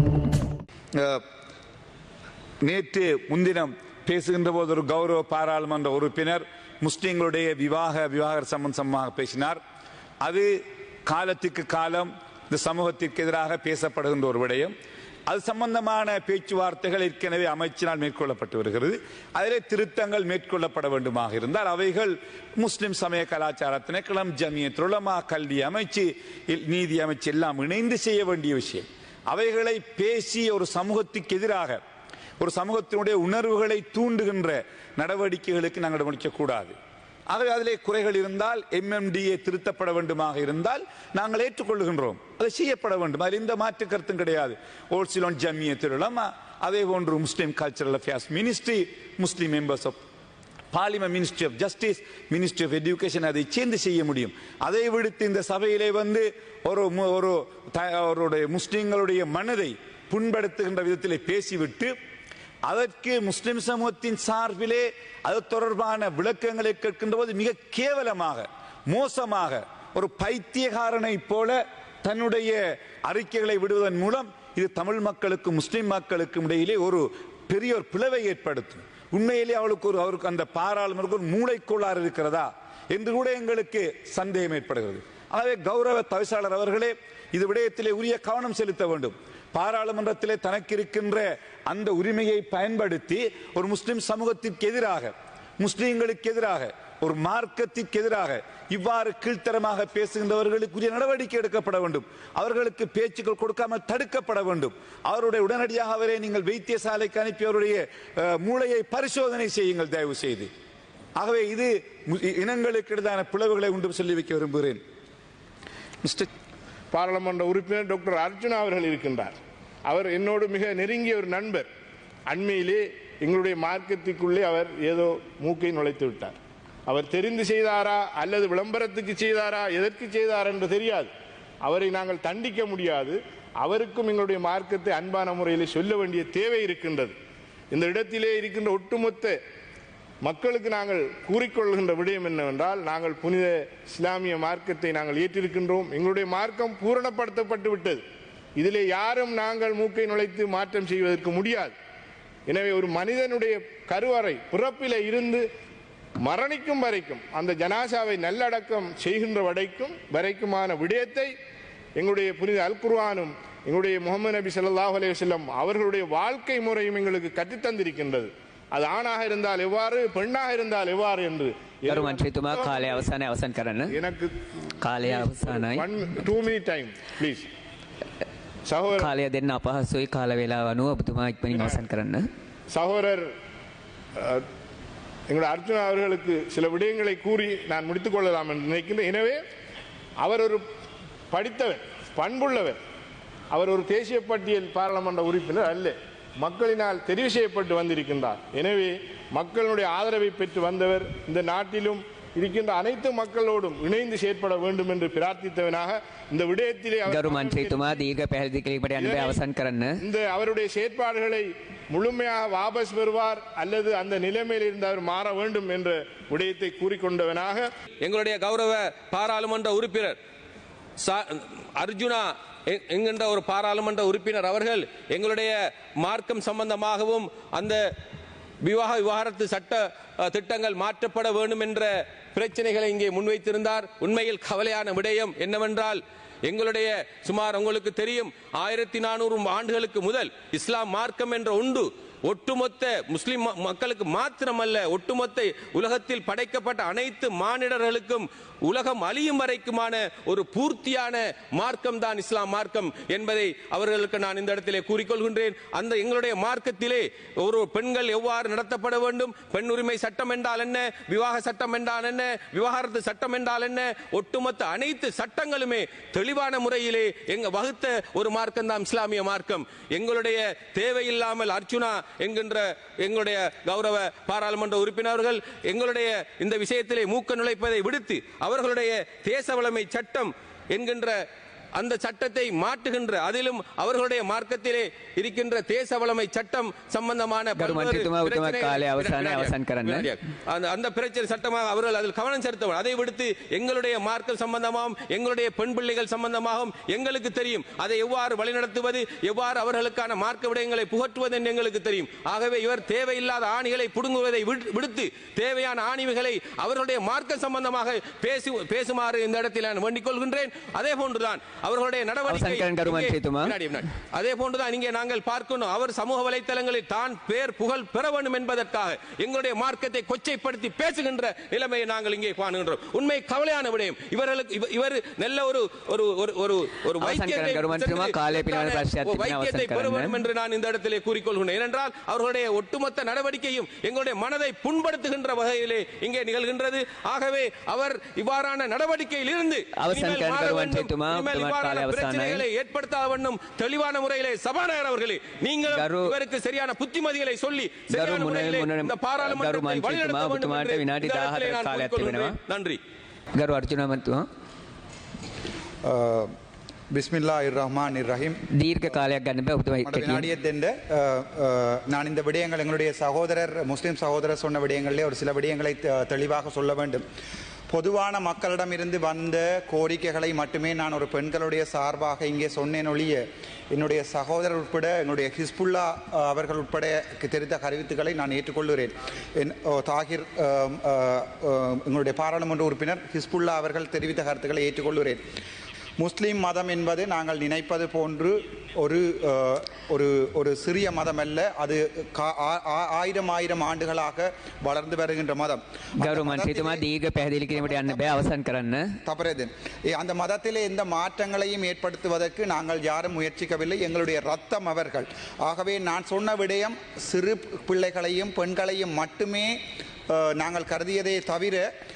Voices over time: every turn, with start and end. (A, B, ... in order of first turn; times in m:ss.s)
0:01.0-0:01.2 A
0:02.6-0:09.6 A
0:10.2-0:10.6 A
0:11.1-0:14.7 A
0:15.3-0:31.8 A
0:32.4-0:36.7 A
0:37.3-0:50.0 A
0:50.7-1:02.0 A
1:02.7-1:50.5 A
1:51.2-1:54.8 A
1:56.0-1:56.3 A
1:56.9-2:01.7 B
2:02.3-2:11.1 B
2:11.6-2:17.1 B
2:17.7-2:19.4 B
2:20.2-2:28.0 B
2:28.6-2:31.8 B
2:32.5-2:35.4 B
2:36.2-2:41.3 B
2:42.0-2:53.1 B
2:51.9-2:54.0 C
2:53.9-2:57.5 B
2:54.8-2:55.9 C
2:58.7-2:59.1 B
2:59.0-3:02.3 C
3:02.7-3:03.3 B
3:04.2-3:04.5 B
3:05.3-3:09.4 B
3:10.2-3:10.6 B
3:11.3-3:12.8 B
3:13.5-3:28.1 B
3:27.1-3:30.0 C
3:29.0-3:29.4 B
3:30.0-3:37.7 B
3:38.0-3:40.2 D
3:41.0-3:47.8 D
3:48.6-4:41.2 D
4:41.8-5:52.8 D
4:47.6-4:50.1 C
5:12.3-5:13.6 C
5:27.0-5:30.2 C
5:39.8-5:42.4 C
5:45.7-5:46.1 C
5:47.9-5:52.4 C
5:53.3-5:54.3 C
5:55.8-5:56.3 E
5:56.9-5:58.4 E
5:58.5-6:00.3 C
5:59.8-6:07.0 E
6:07.7-6:25.2 E
6:26.0-6:36.8 E
6:36.0-6:38.9 C
6:37.5-6:38.3 E
6:39.0-6:49.6 E
6:50.1-6:51.7 E